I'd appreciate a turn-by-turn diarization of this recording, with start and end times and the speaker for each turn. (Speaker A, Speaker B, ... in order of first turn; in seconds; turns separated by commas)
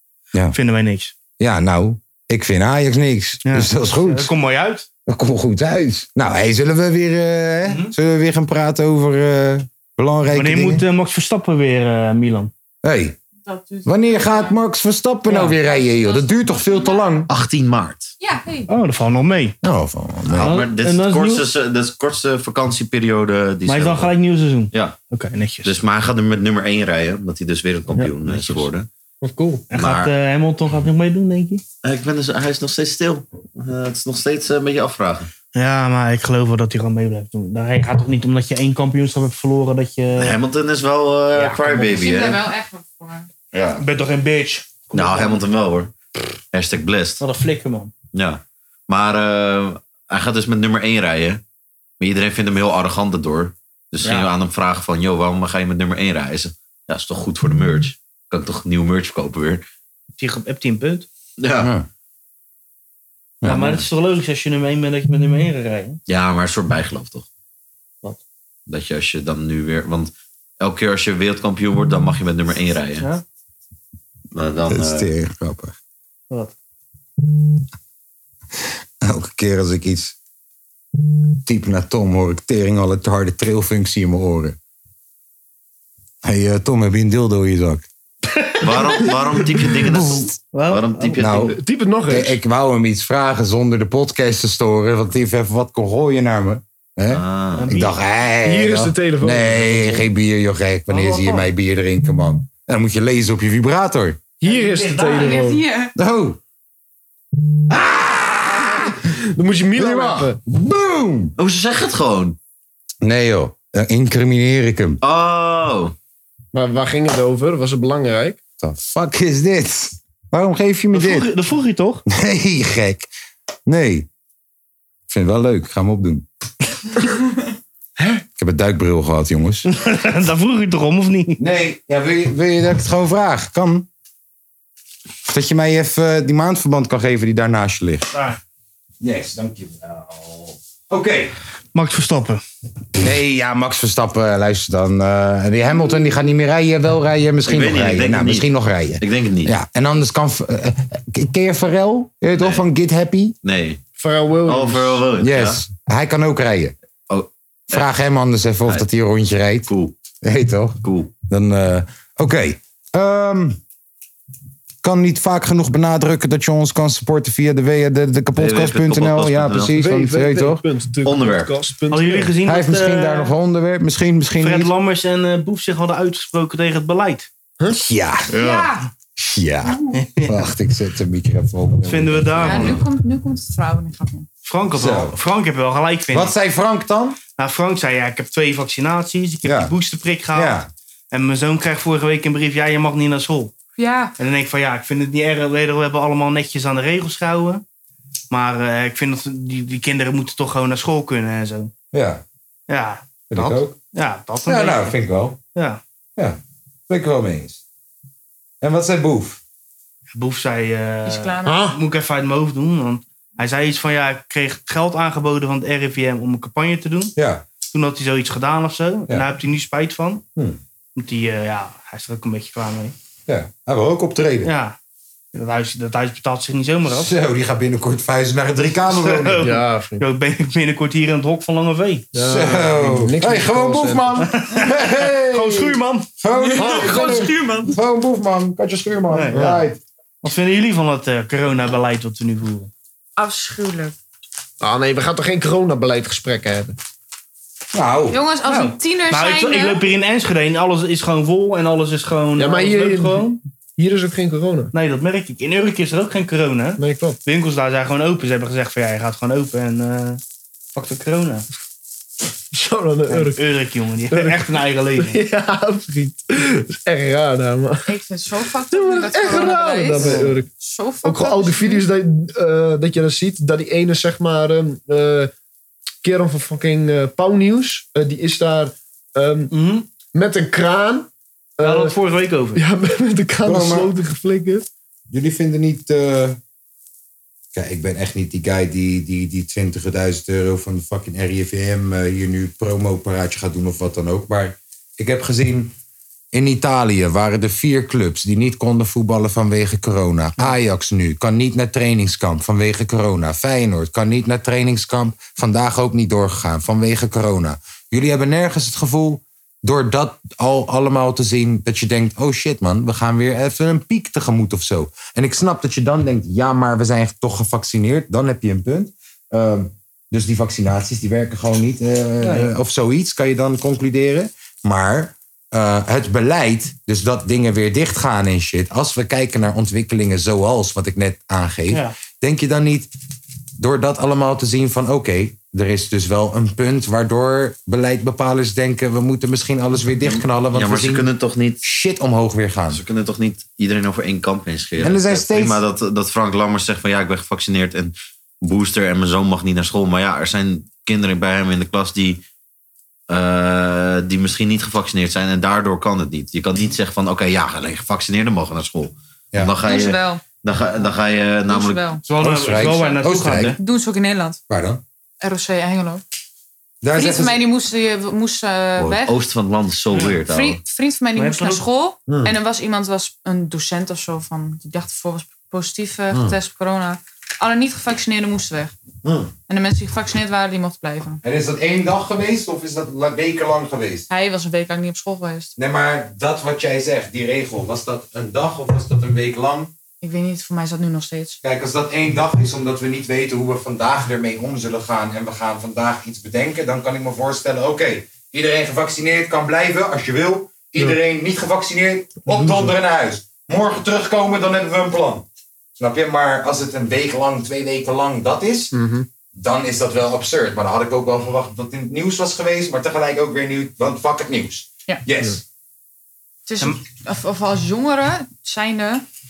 Speaker A: 0.5-1.1, Speaker B: 1.4-4.3, Speaker A: 3.4-4.9, Speaker B: 5.0-10.8, Speaker A: 7.7-7.9, Speaker A: 10.3-12.5, Speaker B: 12.8-13.2, Speaker C: 13.4-14.6, Speaker B: 13.8-17.3, Speaker A: 15.3-15.6, Speaker C: 15.6-17.2, Speaker D: 17.3-18.1, Speaker C: 18.2-18.7, Speaker A: 18.7-19.6, Speaker B: 19.6-20.5, Speaker D: 20.3-24.1, Speaker A: 20.3-21.4, Speaker A: 23.6-25.7, Speaker D: 25.6-28.9, Speaker A: 27.9-28.7, Speaker E: 29.2-29.6, Speaker A: 29.7-31.6, Speaker D: 29.7-30.1, Speaker D: 31.8-35.3, Speaker A: 35.5-40.4, Speaker D: 40.1-42.4, Speaker A: 41.3-42.0, Speaker C: 41.9-43.3, Speaker D: 43.5-43.8, Speaker A: 43.7-45.4, Speaker D: 44.9-45.9, Speaker D: 46.5-47.2, Speaker A: 47.2-47.9, Speaker D: 48.1-51.4, Speaker D: 52.0-59.6, Speaker A: 54.0-54.3, Speaker A: 60.2-61.1, Speaker D: 61.4-61.7, Speaker B: 61.6-61.9, Speaker A: 63.4-66.0, Speaker D: 63.5-63.8, Speaker D: 66.1-67.2, Speaker D: 68.7-73.1, Speaker A: 73.0-73.2, Speaker D: 74.3-75.1, Speaker B: 74.7-75.8, Speaker B: 79.0-80.1, Speaker B: 81.4-84.6, Speaker B: 86.2-87.9, Speaker A: 88.3-89.1, Speaker D: 88.6-91.6, Speaker B: 89.8-90.3, Speaker A: 90.5-91.2, Speaker B: 91.2-91.6, Speaker E: 91.5-92.4, Speaker B: 92.1-104.2, Speaker D: 97.1-97.7, Speaker A: 97.5-97.9, Speaker E: 98.4-100.0, Speaker A: 100.9-101.4, Speaker E: 104.4-105.6, Speaker A: 104.4-105.4, Speaker C: 105.1-105.9, Speaker B: 106.0-106.4, Speaker B: 107.7-109.0, Speaker E: 109.3-110.4, Speaker B: 109.7-111.3, Speaker D: 111.4-112.4, Speaker B: 113.0-115.0, Speaker D: 115.0-115.9, Speaker E: 116.5-118.4, Speaker B: 118.6-121.3, Speaker A: 120.9-122.0, Speaker B: 122.1-123.1, Speaker B: 123.7-124.1, Speaker B: 125.1-126.3, Speaker E: 128.0-128.2, Speaker B: 128.4-129.7, Speaker A: 129.7-131.4, Speaker B: 131.4-133.9, Speaker B: 135.3-138.1, Speaker A: 138.1-138.4, Speaker B: 139.0-141.3, Speaker A: 141.7-142.4, Speaker B: 143.0-153.3, Speaker D: 147.4-149.5, Speaker D: 152.4-152.6, Speaker D: 153.4-153.8, Speaker E: 154.0-155.0, Speaker D: 154.4-155.6, Speaker B: 155.2-156.7, Speaker D: 157.1-157.8, Speaker B: 157.7-159.7, Speaker D: 159.7-159.9, Speaker B: 160.2-163.6, Speaker D: 160.8-161.1, Speaker B: 164.8-170.6, Speaker D: 168.3-169.7, Speaker E: 169.7-172.3, Speaker D: 171.0-171.6, Speaker A: 171.9-173.3, Speaker B: 172.4-174.7, Speaker A: 174.4-177.3, Speaker B: 177.7-178.3, Speaker C: 178.3-178.9, Speaker D: 178.3-178.7, Speaker B: 179.2-182.8, Speaker C: 179.7-179.9, Speaker A: 179.9-180.5, Speaker A: 181.8-182.8, Speaker C: 182.4-184.3, Speaker A: 184.4-186.3, Speaker B: 184.7-185.2, Speaker B: 186.1-187.2, Speaker A: 187.3-190.6, Speaker B: 189.4-189.7, Speaker B: 190.3-190.7, Speaker A: 191.1-193.5, Speaker C: 193.8-194.1, Speaker A: 194.2-197.6, Speaker A: 198.3-201.7, Speaker B: 201.9-202.2, Speaker A: 202.7-204.9, Speaker B: 203.3-203.8, Speaker B: 204.4-205.4, Speaker A: 205.5-205.8, Speaker B: 206.2-207.6, Speaker B: 208.6-209.4, Speaker A: 210.1-217.1, Speaker C: 211.0-211.6, Speaker E: 211.4-211.8, Speaker B: 217.2-217.4, Speaker A: 217.6-220.2, Speaker A: 220.9-222.9, Speaker B: 223.3-224.5, Speaker A: 224.4-224.8, Speaker A: 225.3-227.1, Speaker B: 226.9-229.5, Speaker A: 228.9-232.1, Speaker E: 229.4-230.0, Speaker E: 232.1-234.2, Speaker B: 232.2-239.8, Speaker A: 234.2-236.1, Speaker C: 236.3-237.7, Speaker E: 236.6-237.0, Speaker A: 239.1-239.6, Speaker A: 240.2-242.7, Speaker C: 243.2-243.9, Speaker E: 244.6-246.7, Speaker B: 247.7-248.2, Speaker C: 248.1-249.8, Speaker A: 248.4-253.3, Speaker E: 252.4-254.7, Speaker A: 254.7-260.2, Speaker E: 256.8-257.2, Speaker A: 260.7-261.4, Speaker E: 262.5-263.4, Speaker A: 263.1-265.2, Speaker E: 264.1-267.9, Speaker C: 267.9-271.8, Speaker E: 268.7-270.5, Speaker A: 269.9-270.3, Speaker E: 271.0-275.3, Speaker E: 276.0-279.5, Speaker A: 279.5-279.9, Speaker E: 280.1-281.9, Speaker A: 281.6-282.6, Speaker E: 282.5-284.6, Speaker B: 283.4-283.9, Speaker B: 285.1-286.4, Speaker B: 287.5-295.7, Speaker B: 296.3-332.9, Speaker A: 322.2-322.5, Speaker B: 333.6-341.1, Speaker D: 340.0-341.6, Speaker B: 341.6-342.8, Speaker D: 342.7-352.2, Speaker B: 344.8-345.6, Speaker D: 353.1-361.8, Speaker C: 359.6-360.2, Speaker C: 361.5-362.0, Speaker A: 362.1-363.6, Speaker B: 362.2-363.6, Speaker C: 363.6-364.4, Speaker B: 364.5-364.8, Speaker C: 365.2-366.0, Speaker B: 366.8-367.4, Speaker C: 366.9-369.1, Speaker D: 368.8-370.6, Speaker A: 369.9-370.2, Speaker C: 370.3-378.7, Speaker A: 371.1-371.6, Speaker B: 379.0-379.3, Speaker C: 379.5-381.2, Speaker B: 381.2-384.1, Speaker C: 384.1-385.5, Speaker B: 385.6-389.7, Speaker C: 390.0-391.4, Speaker B: 391.4-405.2, Speaker B: 405.8-408.7, Speaker E: 408.7-409.1, Speaker B: 409.3-415.4, Speaker C: 416.5-419.0